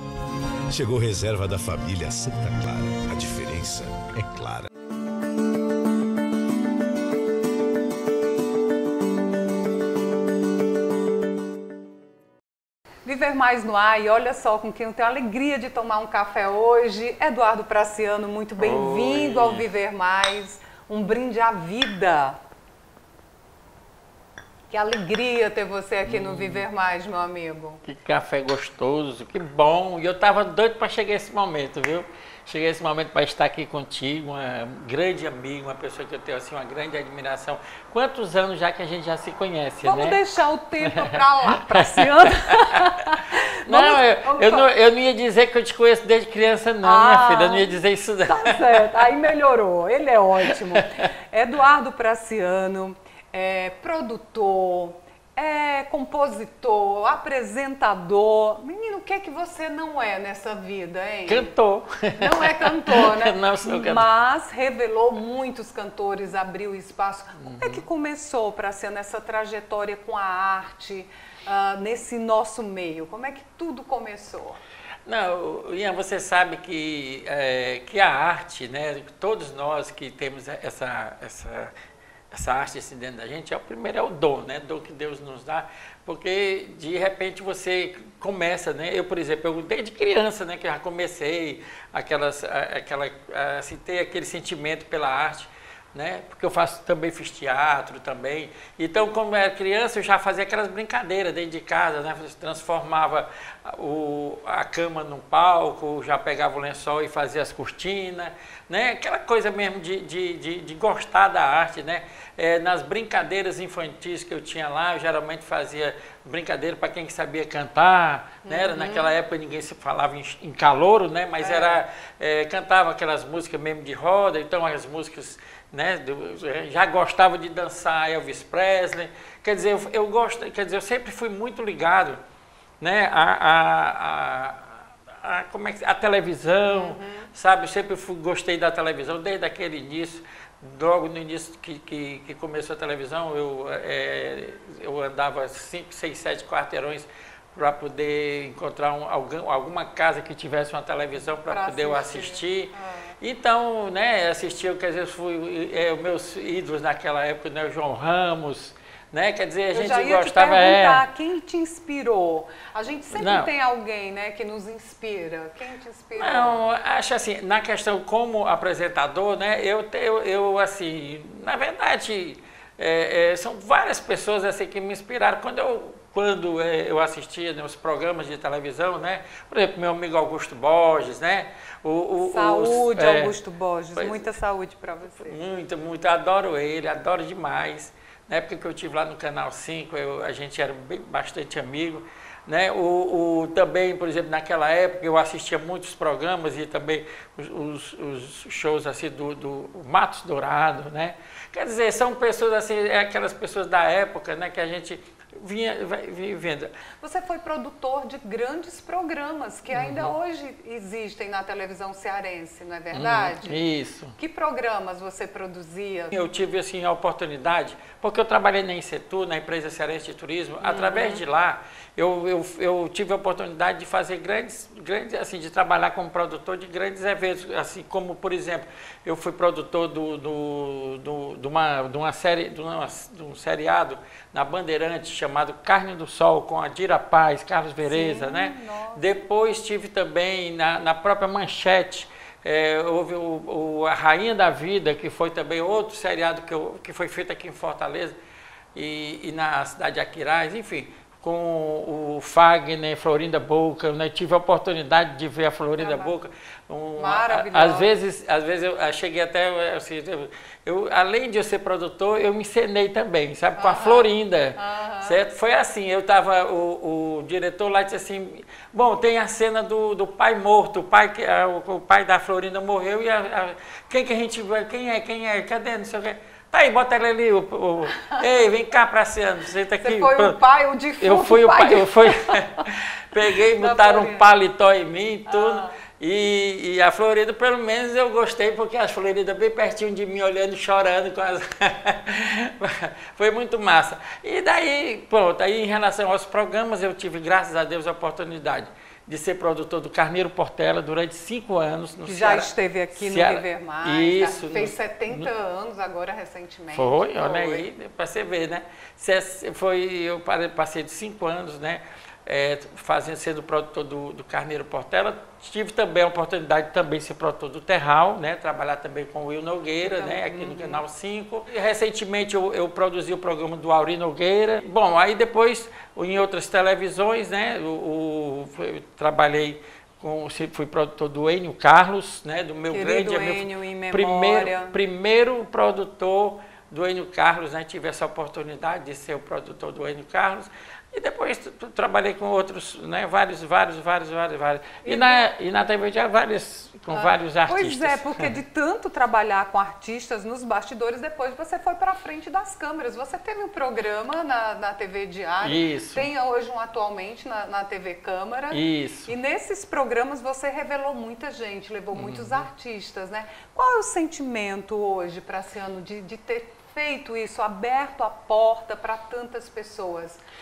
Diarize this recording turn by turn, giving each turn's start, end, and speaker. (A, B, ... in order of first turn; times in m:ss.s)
0:00.7-0:04.7 A
0:13.0-0:22.4 B
0:18.6-0:19.6 C
0:24.7-0:27.8 B
0:26.0-0:26.6 C
0:27.8-0:40.2 C
0:39.8-0:44.7 B
0:40.9-0:42.9 C
0:43.6-0:49.1 C
0:46.8-0:47.7 B
0:48.3-1:01.5 B
0:50.5-0:51.0 C
1:01.3-1:04.1 C
1:02.2-1:14.6 B
1:07.4-1:07.8 C
1:15.0-1:21.7 C
1:22.3-2:12.2 C
1:58.4-1:59.1 B
2:01.4-2:01.8 B
2:12.8-2:41.0 C
2:16.7-2:17.3 B
2:31.5-2:33.1 B
2:39.7-2:46.6 B
2:43.1-2:43.5 C
2:46.2-3:03.3 C
3:02.3-3:05.4 B
3:04.0-3:04.3 C
3:05.2-3:26.7 C
3:27.0-3:33.6 B
3:29.7-3:30.1 C
3:32.9-3:34.1 C
3:34.2-3:36.1 B
3:36.1-4:08.2 C
3:40.6-3:41.2 B
3:57.9-3:59.0 B
4:08.7-4:40.4 C
4:15.8-4:16.1 B
4:17.0-4:17.9 B
4:23.6-4:25.2 B
4:39.8-4:42.6 B
4:41.0-5:05.3 C
4:43.6-4:44.2 B
4:45.3-4:45.7 B
5:02.1-5:07.6 B
5:06.7-5:48.4 C
5:19.8-5:20.8 B
5:32.7-5:34.7 B
5:44.8-5:45.2 B
5:46.9-6:10.2 B
5:55.4-5:56.1 C
5:58.5-5:59.1 C
6:01.9-6:02.5 C